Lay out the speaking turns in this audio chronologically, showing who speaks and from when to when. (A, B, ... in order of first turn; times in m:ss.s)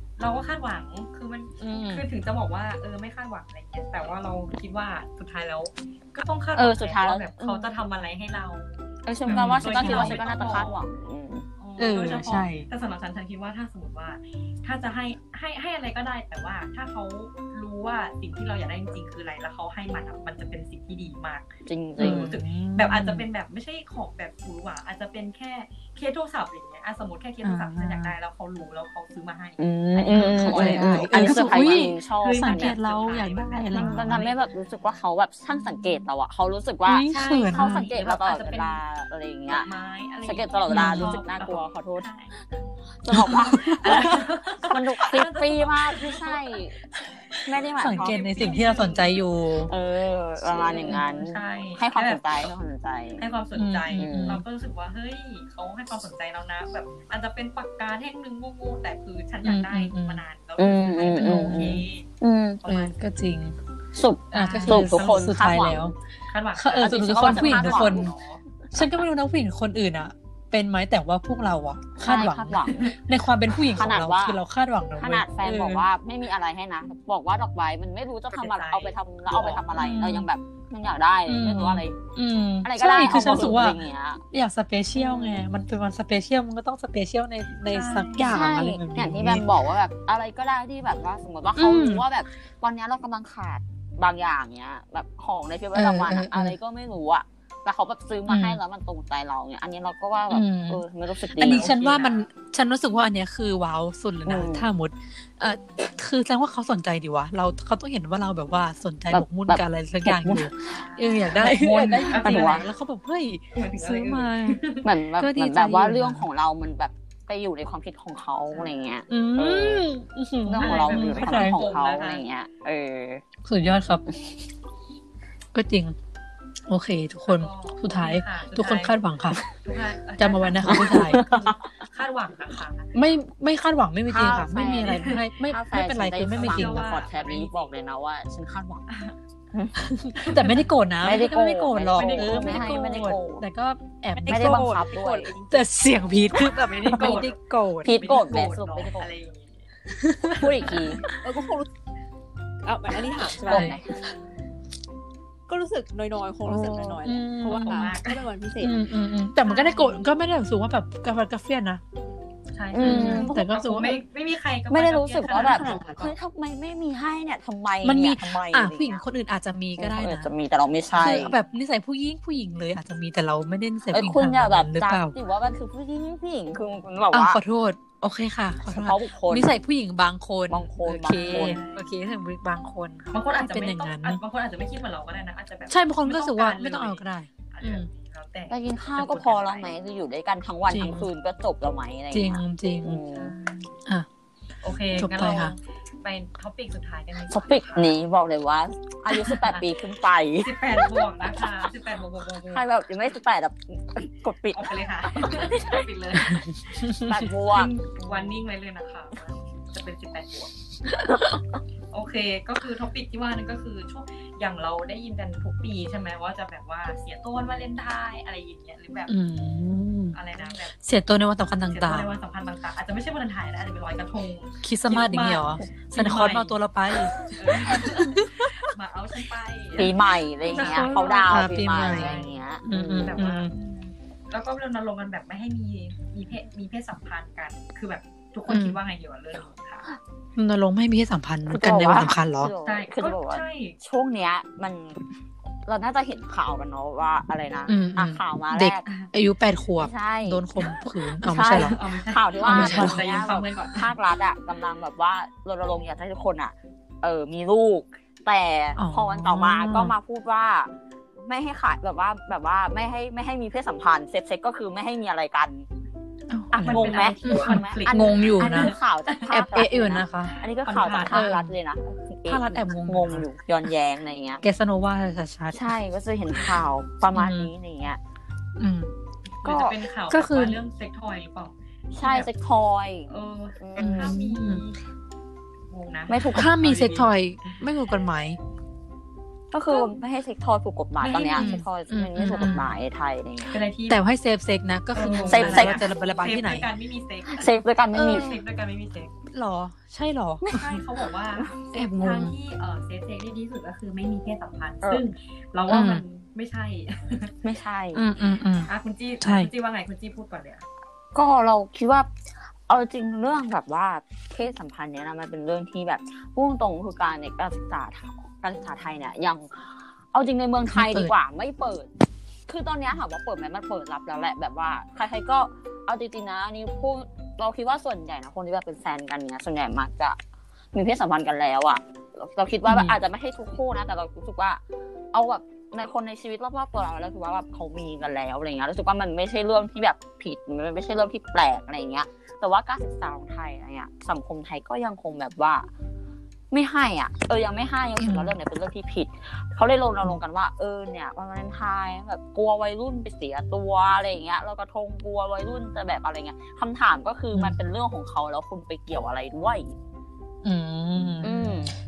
0:00.2-0:10.8 A
0:01.6-0:02.0 B
0:06.6-0:07.7 C
0:09.0-0:11.5 C
0:09.3-0:10.2 B
0:11.6-0:34.4 A
0:11.8-0:12.7 B
0:21.7-0:22.3 C
0:22.0-0:23.2 B
0:27.4-0:28.1 B
0:29.6-0:32.8 C
0:29.9-0:34.3 B
0:33.7-0:39.7 C
0:36.8-0:37.9 B
0:37.1-0:38.8 A
0:39.5-0:42.4 A
0:40.2-0:42.1 C
0:40.7-0:41.2 B
0:43.0-0:46.7 C
0:43.1-0:44.2 B
0:43.2-0:46.5 A
0:47.4-0:48.3 C
0:47.7-0:49.2 A
0:47.8-0:49.7 B
0:49.7-0:53.2 C
0:50.5-0:52.2 A
0:50.7-0:51.0 B
0:53.2-1:02.0 A
0:53.6-0:54.4 B
0:53.9-0:54.4 C
0:59.4-1:00.2 B
1:00.6-1:02.6 C
1:01.1-1:01.8 B
1:02.6-1:03.6 B
1:02.6-1:02.9 A
1:03.9-1:05.9 C
1:04.3-1:05.2 A
1:04.3-1:05.9 B
1:06.3-1:08.4 A
1:06.5-1:08.1 B
1:06.7-1:08.1 C
1:08.7-1:15.8 B
1:12.0-1:12.9 C
1:12.6-1:13.0 A
1:13.7-1:14.4 C
1:15.0-1:22.0 C
1:18.3-1:19.7 A
1:19.7-1:20.3 B
1:21.3-1:23.8 B
1:22.6-1:24.2 C
1:24.3-1:29.4 B
1:25.0-1:25.4 A
1:27.7-1:28.4 A
1:28.2-1:41.8 C
1:31.6-1:32.0 B
1:35.7-1:36.6 B
1:38.3-1:38.6 B
1:40.3-1:54.6 B
1:41.4-1:42.2 A
1:44.2-1:44.6 C
1:49.1-1:50.5 C
1:50.7-1:52.7 A
1:51.4-1:52.6 C
1:53.5-1:54.9 A
1:54.8-1:59.9 C
1:55.2-1:56.2 B
1:58.5-1:58.8 A
1:59.1-2:01.6 B
2:00.4-2:02.2 A
2:00.5-2:03.2 C
2:03.4-2:04.1 B
2:05.5-2:05.9 B
2:06.7-2:09.4 B
2:07.3-2:09.0 A
2:09.5-2:12.9 A
2:10.2-2:11.2 B
2:10.6-2:11.6 C
2:12.9-2:16.9 B
2:14.1-2:18.8 C
2:14.8-2:15.2 A
2:16.3-2:17.7 A
2:18.9-2:19.1 A
2:19.5-2:19.8 C
2:19.8-2:24.8 B
2:20.2-2:20.7 A
2:21.0-2:23.4 C
2:21.9-2:22.8 A
2:24.2-2:25.6 D
2:24.3-2:25.3 C
2:25.5-2:27.9 B
2:26.5-2:29.6 A
2:27.8-2:29.1 C
2:29.9-2:31.2 B
2:30.4-2:31.0 C
2:31.1-2:31.7 D
2:32.6-2:33.8 D
2:33.4-2:33.9 C
2:33.4-2:33.8 B
2:35.5-2:38.8 D
2:36.4-2:37.9 B
2:37.5-2:38.3 A
2:38.6-2:41.8 B
2:39.4-2:40.0 A
2:42.5-2:46.1 A
2:42.7-2:43.4 C
2:42.8-2:44.0 B
2:44.7-2:49.0 C
2:45.6-2:45.9 D
2:47.8-2:50.3 B
2:49.8-2:51.4 C
2:50.9-2:55.1 B
2:53.9-2:57.4 C
2:57.1-3:04.2 B
2:58.7-2:59.6 C
3:00.5-3:01.6 C
3:01.0-3:01.9 A
3:03.1-3:09.7 A
3:05.7-3:07.9 B
3:08.5-3:13.3 C
3:10.7-3:11.1 B
3:12.1-3:13.0 B
3:13.1-3:13.7 A
3:14.6-3:18.0 A
3:14.9-3:15.5 B
3:17.3-3:20.9 C
3:19.2-3:19.6 A
3:20.4-3:22.7 A
3:22.5-3:25.8 C
3:24.5-3:30.5 A
3:26.9-3:27.1 B
3:27.0-3:28.4 C
3:31.9-3:39.1 A
3:39.1-3:40.2 B
3:40.1-3:40.7 A
3:40.7-3:42.2 B
3:41.7-3:46.6 A
3:44.6-3:48.7 B
3:47.2-3:52.4 A
3:49.8-3:53.2 C
3:50.5-3:53.5 B
3:53.0-3:59.9 A
3:58.5-3:58.8 B
4:00.4-4:02.5 B
4:01.5-4:05.0 C
4:02.6-4:03.8 A
4:05.6-4:08.8 C
4:07.7-4:11.8 B
4:09.8-4:10.5 C
4:11.2-4:25.7 C
4:11.4-4:13.9 A
4:12.4-4:13.0 B
4:18.8-4:19.9 B
4:26.3-4:28.7 B
4:26.5-4:34.4 C
4:26.6-4:29.4 A
4:29.3-4:30.4 B
4:30.6-4:31.3 A
4:31.1-4:31.5 B
4:32.3-4:33.3 B
4:34.4-4:35.7 B
4:35.5-4:38.0 C
4:37.1-4:37.5 B
4:38.6-4:38.9 B
4:39.4-4:42.3 A
4:39.4-4:39.8 C
4:40.1-4:40.6 B
4:41.9-4:44.2 C
4:43.1-4:44.8 A
4:43.8-4:44.6 B
4:45.7-4:47.6 A
4:46.1-4:46.7 C
4:46.3-4:48.4 B
4:49.5-4:53.6 C
4:51.0-4:51.6 A
4:51.4-4:52.6 B
4:52.2-4:52.7 A
4:53.5-4:54.0 A
4:53.9-4:56.7 B
4:54.9-4:59.1 A
4:55.3-4:55.9 C
4:57.3-4:58.3 C
4:57.9-4:58.4 B
4:59.3-5:00.5 B
5:00.4-5:00.7 C
5:00.4-5:07.4 A
5:01.7-5:02.4 B
5:05.7-5:06.0 B
5:07.4-5:08.0 C
5:07.9-5:09.5 B
5:08.6-5:10.6 A
5:11.1-5:12.1 C
5:12.7-5:21.9 C
5:20.7-5:21.1 B
5:22.5-5:30.2 C
5:30.7-5:34.6 C
5:32.6-5:33.0 B
5:35.1-5:45.7 C
5:46.5-5:59.8 C
5:48.0-5:48.4 B
6:00.4-6:01.6 B
6:01.0-6:01.3 A
6:01.2-6:01.7 C